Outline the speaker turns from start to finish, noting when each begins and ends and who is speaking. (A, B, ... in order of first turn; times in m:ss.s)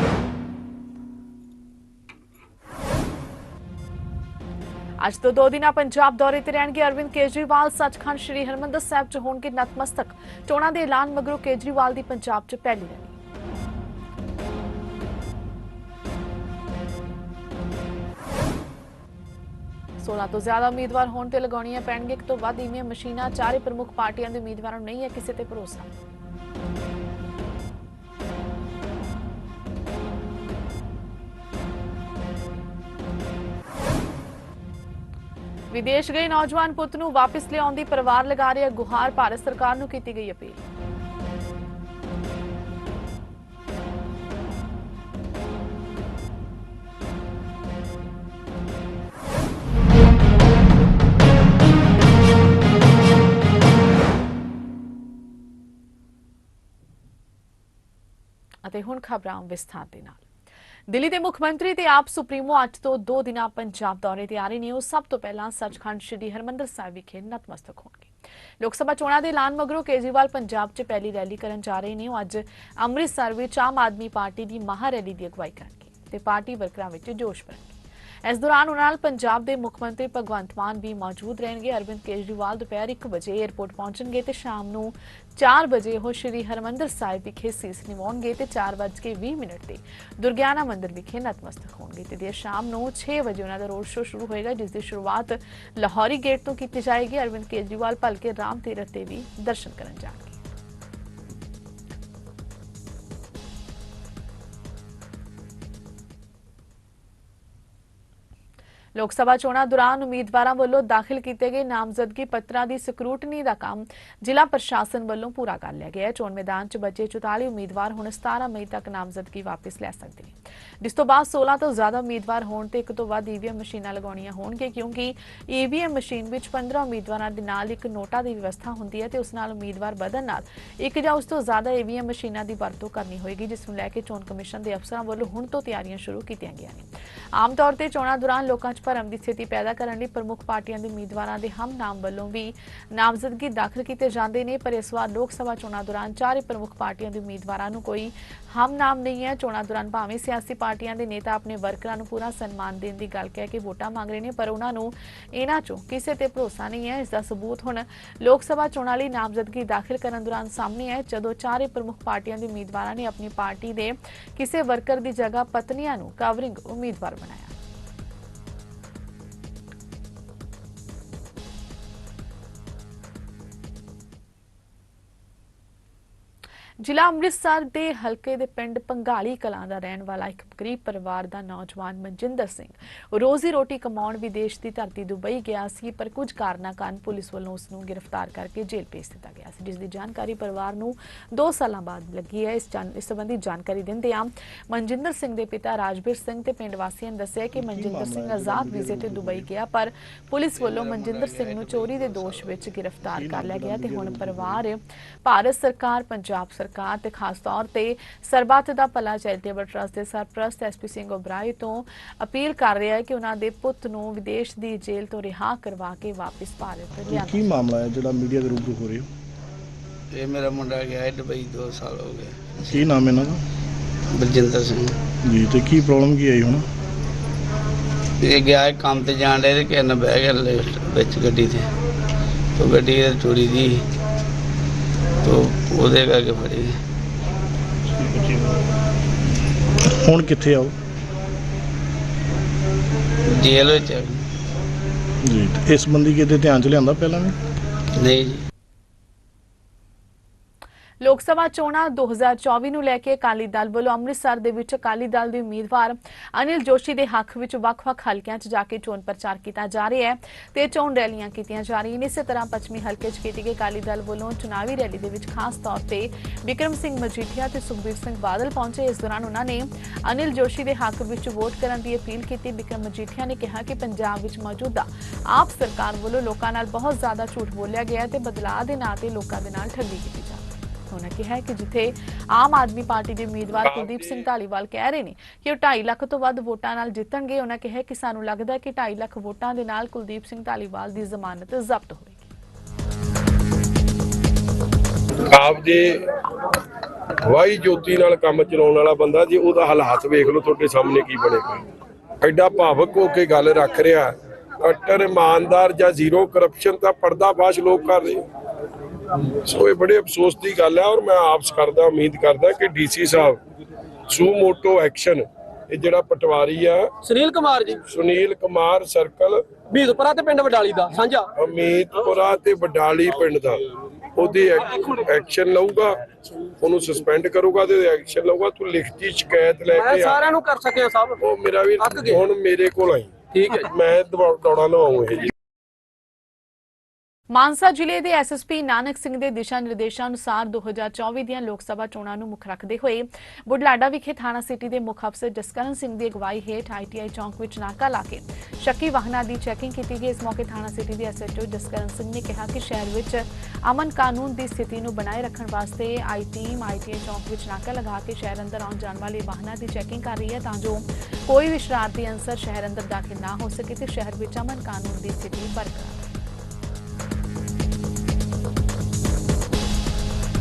0:05.0-0:13.1 A
0:20.0-0:25.9 A
0:35.7-0:40.6 A
0:58.6-1:00.2 A
1:00.9-1:40.4 A
1:48.9-2:47.5 A
2:56.8-3:37.5 A
3:17.5-3:19.5 B
3:20.5-3:22.6 C
3:23.1-3:24.6 B
3:37.1-3:39.1 B
3:40.1-3:42.8 C
3:42.7-3:43.4 B
3:44.1-3:44.9 C
3:45.2-3:46.6 B
3:48.2-3:51.7 C
3:52.6-3:53.8 C
3:55.2-3:56.8 C
3:58.0-3:58.6 B
3:59.9-4:00.7 B
4:03.3-4:04.2 C
4:05.2-4:07.4 B
4:08.0-4:08.4 C
4:11.0-4:52.3 A
4:43.6-4:44.3 D
4:55.3-4:56.0 D
4:57.2-5:01.6 D
5:02.2-5:08.2 D
5:09.4-5:13.4 D
5:14.1-5:16.9 D
5:17.0-5:17.8 E
5:17.8-5:19.5 D
5:19.7-5:21.3 E
5:21.3-5:23.6 D
5:24.2-5:26.0 D
5:26.6-5:30.2 D
5:29.7-5:31.2 E
5:31.2-5:33.1 D
5:31.8-5:32.2 E
5:33.3-5:33.7 E
5:33.6-5:35.3 D
5:37.3-6:06.1 A